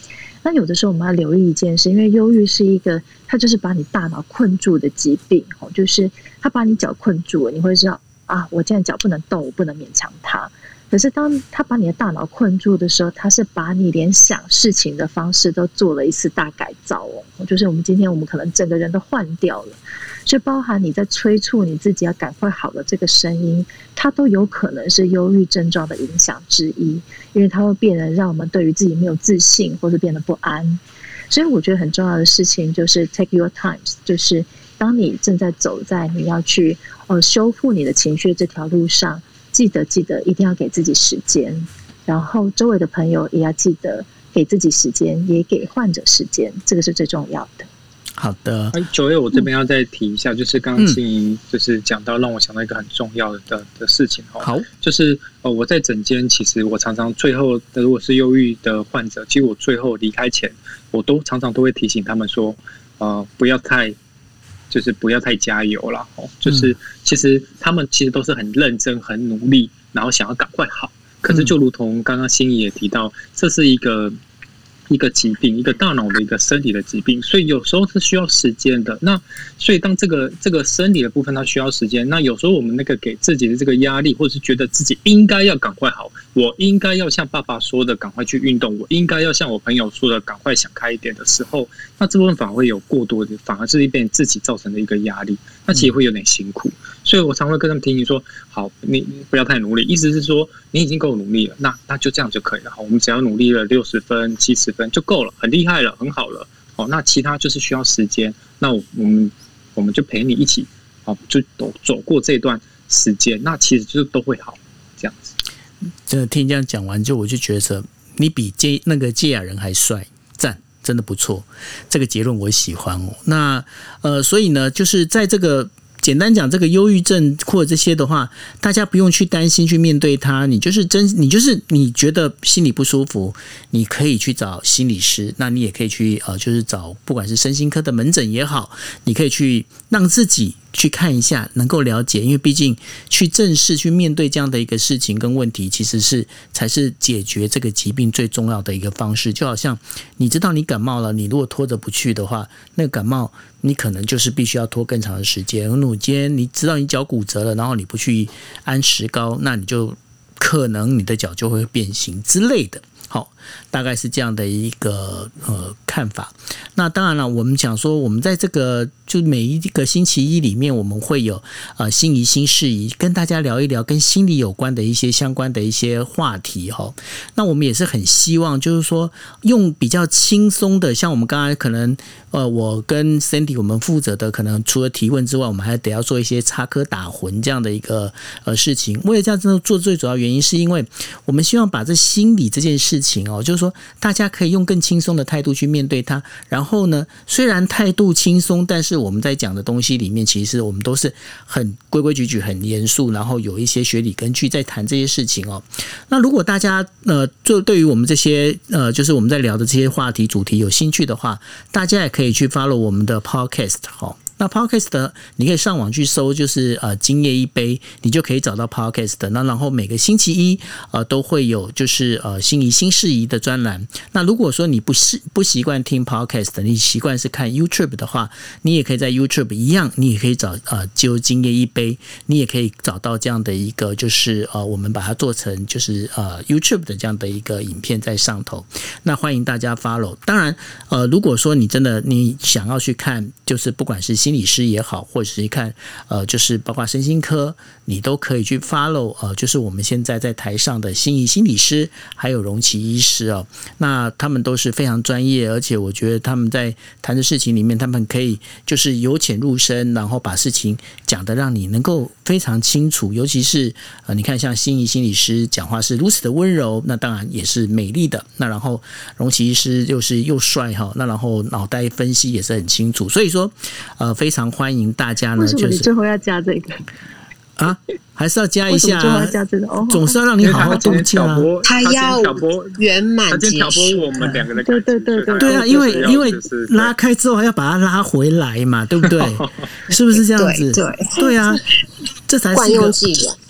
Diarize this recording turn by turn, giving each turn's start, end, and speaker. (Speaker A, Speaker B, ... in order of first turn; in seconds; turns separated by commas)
Speaker A: 0.4-47.7, Speaker B: 48.2-48.8, Speaker C: 48.7-64.0, Speaker B: 54.4-54.7, Speaker C: 64.7-74.2, Speaker C: 74.9-115.4, Speaker B: 116.0-275.9, Speaker A: 275.4-276.8, Speaker B: 277.6-279.4, Speaker A: 278.7-280.9, Speaker B: 279.9-281.5, Speaker C: 280.4-286.9, Speaker D: 281.6-284.3, Speaker A: 284.6-286.3, Speaker B: 285.4-291.6, Speaker C: 289.0-289.6, Speaker D: 290.3-291.6, Speaker B: 292.3-293.0, Speaker D: 292.5-293.4